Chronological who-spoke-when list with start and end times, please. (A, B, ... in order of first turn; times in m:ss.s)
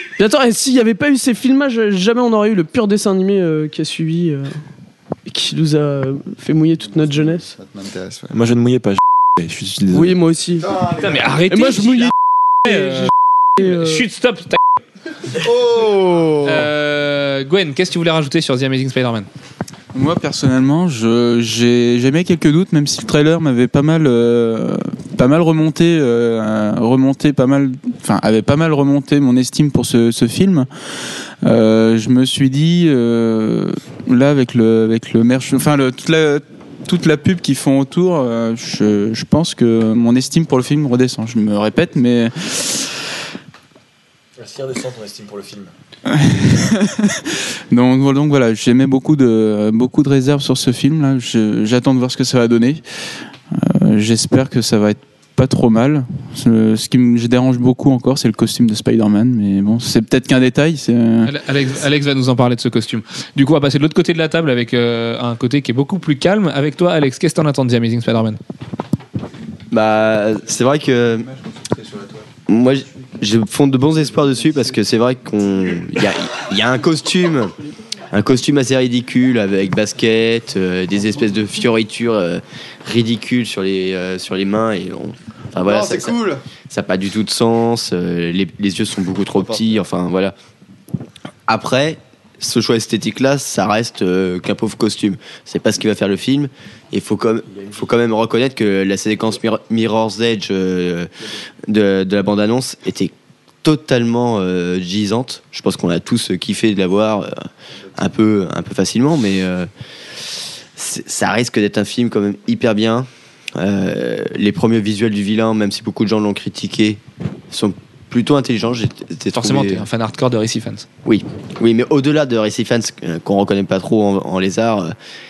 0:00.2-0:04.5 A
0:05.3-0:07.4 A
0:07.0-0:08.3 B
0:08.3-0:10.2 C
0:09.9-0:12.1 A
0:10.6-0:11.3 B
0:11.0-0:12.1 D
0:12.6-0:14.0 A
0:12.6-0:14.6 D
0:15.4-0:16.7 B
0:16.4-0:19.3 D
0:19.9-0:43.0 E
0:44.4-0:45.7 C
0:46.1-0:52.8 E
0:53.5-1:01.3 E
1:01.2-1:08.4 D
1:09.7-1:11.3 F
1:11.2-1:12.2 B
1:12.5-1:17.5 F
1:18.1-1:26.2 F
1:25.6-1:26.4 B
1:26.7-1:30.3 F
1:31.5-1:41.1 F
1:41.7-1:43.1 F
1:43.6-1:49.7 F
1:50.8-1:59.9 F
1:59.3-2:00.9 D
2:01.0-2:05.0 F